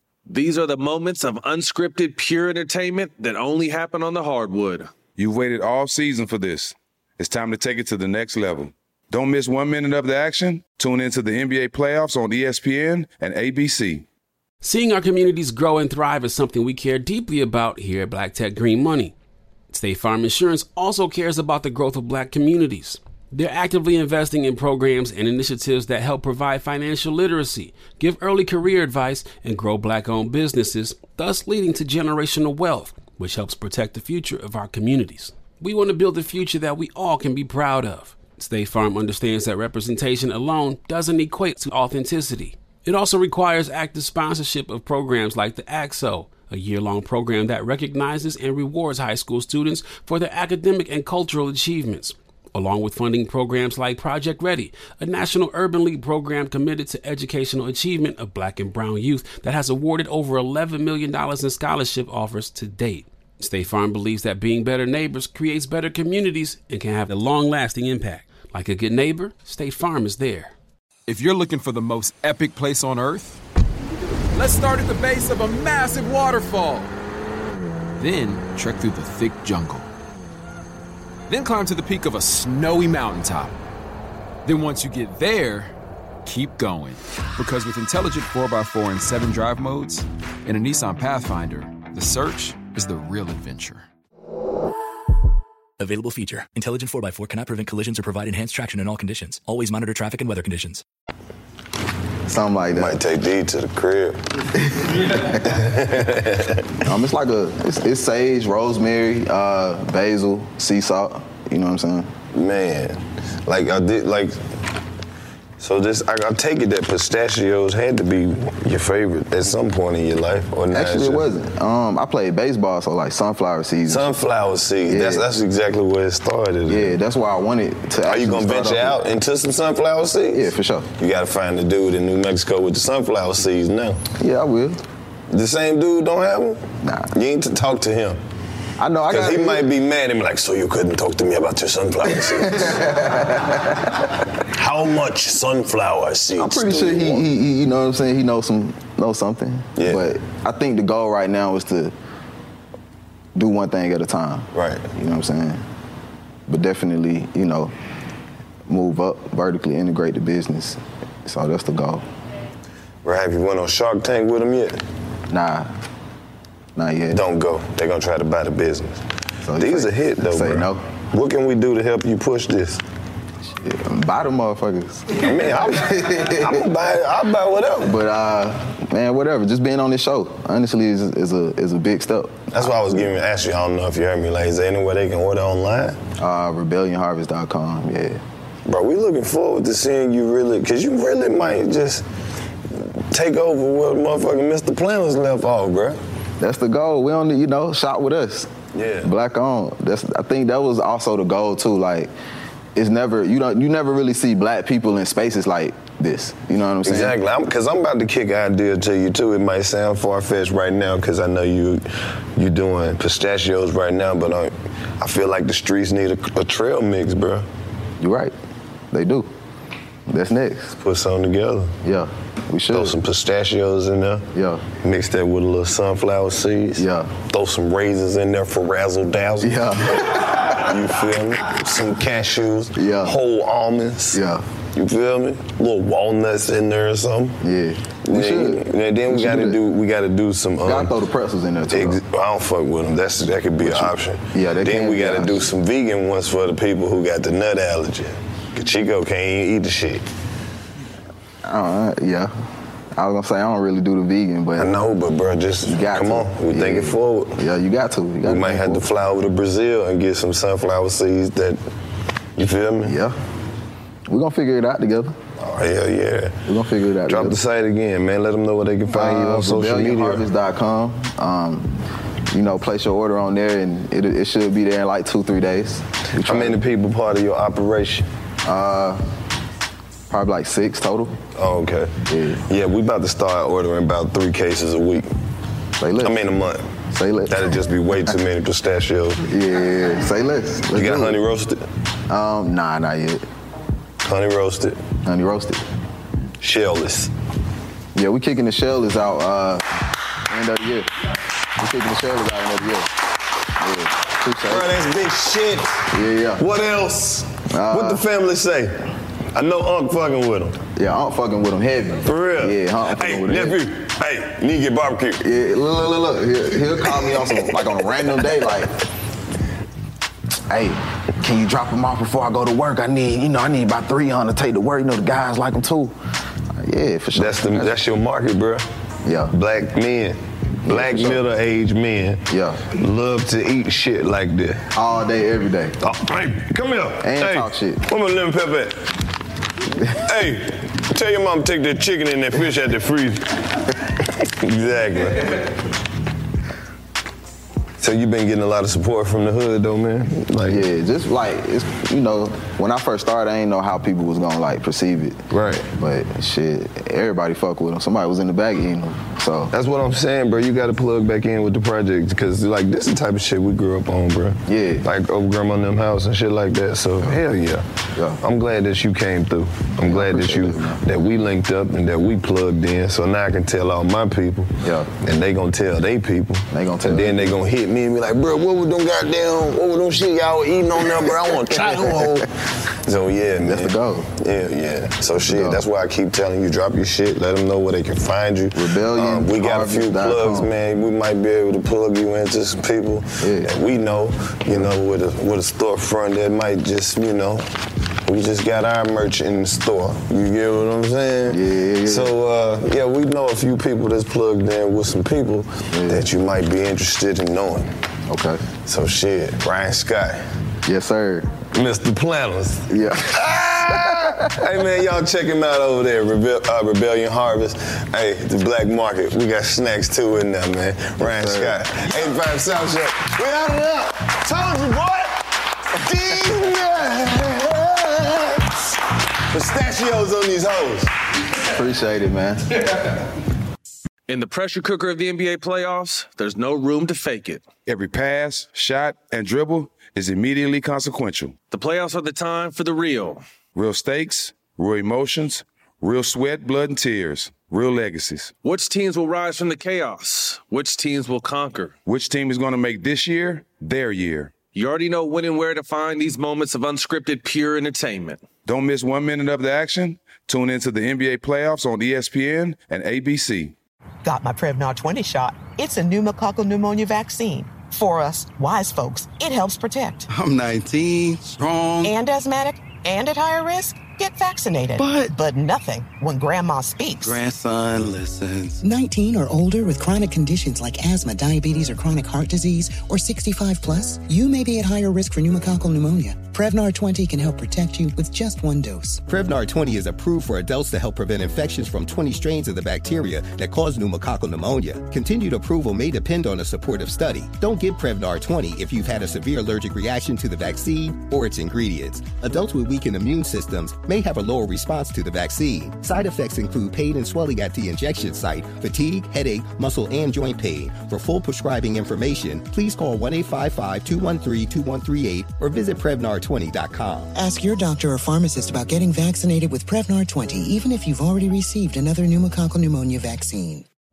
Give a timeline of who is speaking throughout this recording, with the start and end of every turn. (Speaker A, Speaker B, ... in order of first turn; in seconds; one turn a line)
Speaker A: 0.3-4.9
Speaker B: 5.2-14.0
Speaker C: 14.6-19.1
Speaker C: 19.7-70.5
Speaker D: 71.1-73.4
Speaker D: 74.3-76.9
Speaker D: 78.0-79.9
Speaker D: 81.3-83.5
Speaker D: 84.4-85.7
Speaker D: 86.2-93.8
Speaker E: 96.0-100.7
Speaker F: 102.3-103.0
Speaker G: 102.7-106.7
Speaker F: 106.8-112.1
Speaker G: 112.3-114.3
Speaker G: 115.6-121.3
Speaker F: 120.7-124.2
Speaker G: 123.9-127.0
Speaker F: 124.9-125.3
Speaker F: 126.7-129.0
Speaker G: 128.1-134.0
Speaker F: 130.3-130.9
Speaker F: 134.2-134.8
Speaker G: 135.3-136.6
Speaker F: 136.8-137.1
Speaker G: 137.1-138.2
Speaker F: 138.8-139.7
Speaker G: 139.1-142.8
Speaker F: 142.1-144.1
Speaker G: 144.4-147.2
Speaker F: 146.4-151.9
Speaker G: 149.8-150.0
Speaker F: 153.3-155.6
Speaker G: 154.5-154.9
Speaker F: 156.5-157.7
Speaker F: 158.7-162.0
Speaker G: 163.0-164.8
Speaker F: 165.3-165.7
Speaker F: 166.8-167.2
Speaker G: 167.1-169.0
Speaker F: 169.4-170.8
Speaker G: 169.6-172.8
Speaker F: 173.6-176.7
Speaker G: 175.2-177.9
Speaker F: 177.8-182.9
Speaker G: 182.5-186.0
Speaker F: 186.2-188.2
Speaker G: 188.7-192.0
Speaker G: 192.7-196.0
Speaker F: 196.4-198.5
Speaker G: 198.7-199.1
Speaker F: 199.0-202.1
Speaker F: 202.8-207.2
Speaker G: 206.8-211.8
Speaker G: 212.3-217.4
Speaker F: 218.0-218.3
Speaker F: 218.9-219.3
Speaker F: 220.1-220.8
Speaker G: 220.8-221.7
Speaker F: 221.8-222.9
Speaker G: 222.7-224.3
Speaker F: 224.3-224.6
Speaker G: 224.8-234.2
Speaker F: 226.8-227.1
Speaker F: 229.4-230.8
Speaker F: 232.8-233.2
Speaker F: 234.1-234.4
Speaker G: 234.8-237.4
Speaker F: 237.4-239.6
Speaker G: 238.0-240.9
Speaker F: 240.6-242.0
Speaker G: 241.7-250.0
Speaker F: 243.6-245.5
Speaker F: 251.4-252.3
Speaker F: 252.9-254.7
Speaker G: 254.6-257.4
Speaker F: 255.7-258.9
Speaker G: 258.2-261.6
Speaker G: 262.4-263.0
Speaker F: 262.8-263.1
Speaker F: 264.1-265.1
Speaker G: 265.4-266.4
Speaker F: 266.4-267.4
Speaker G: 267.1-270.2
Speaker F: 268.9-276.6
Speaker G: 276.2-278.1
Speaker F: 278.4-279.0
Speaker F: 280.1-281.2
Speaker G: 281.3-285.1
Speaker F: 282.1-282.4
Speaker F: 285.8-286.3
Speaker G: 286.0-286.7
Speaker F: 286.9-288.1
Speaker G: 287.3-289.2
Speaker F: 289.3-291.2
Speaker G: 290.8-291.6
Speaker F: 292.1-293.2
Speaker G: 294.0-294.8
Speaker F: 295.0-295.6
Speaker G: 296.4-297.1
Speaker F: 297.9-299.6
Speaker F: 300.3-300.9
Speaker F: 301.6-302.9
Speaker F: 303.6-304.7
Speaker G: 304.5-310.6
Speaker F: 305.9-306.4
Speaker F: 307.5-308.1
Speaker F: 310.8-313.6
Speaker G: 312.0-315.2
Speaker F: 315.2-318.7
Speaker G: 316.8-317.6
Speaker F: 320.5-325.9
Speaker F: 326.6-327.8
Speaker G: 327.1-328.6
Speaker F: 329.0-329.4
Speaker G: 329.3-334.6
Speaker F: 330.6-331.2
Speaker F: 332.3-332.7
Speaker F: 334.7-335.8
Speaker G: 335.8-338.8
Speaker F: 337.0-337.8
Speaker G: 339.8-345.5
Speaker G: 347.8-350.6
Speaker F: 350.4-355.2
Speaker G: 355.3-355.7
Speaker F: 355.8-359.5
Speaker G: 359.5-367.6
Speaker F: 364.5-364.9
Speaker F: 367.9-368.2
Speaker G: 368.2-397.5
Speaker F: 369.8-370.8
Speaker F: 374.6-374.9
Speaker F: 376.5-377.4
Speaker F: 383.4-384.1
Speaker F: 385.3-385.7
Speaker F: 388.5-390.5
Speaker F: 393.2-393.5
Speaker G: 398.0-407.7
Speaker F: 401.3-402.1
Speaker F: 405.7-406.1
Speaker F: 408.1-408.4
Speaker G: 408.6-410.2
Speaker F: 410.6-411.3
Speaker G: 411.5-425.2
Speaker F: 412.7-414.3
Speaker F: 421.0-421.6
Speaker G: 425.8-428.5
Speaker G: 429.3-430.9
Speaker F: 431.4-432.4
Speaker A: 434.1-437.4
Speaker B: 437.6-441.3
Speaker A: 441.5-443.2
Speaker B: 443.5-448.3
Speaker A: 448.4-451.7
Speaker B: 451.9-454.3
Speaker A: 454.5-458.2
Speaker B: 458.5-463.5
Speaker H: 464.0-470.0
Speaker I: 470.1-471.9
Speaker H: 471.8-477.1
Speaker I: 474.8-475.1
Speaker I: 477.1-478.6
Speaker J: 478.6-489.0
Speaker K: 489.1-517.1
Speaker J: 517.1-523.6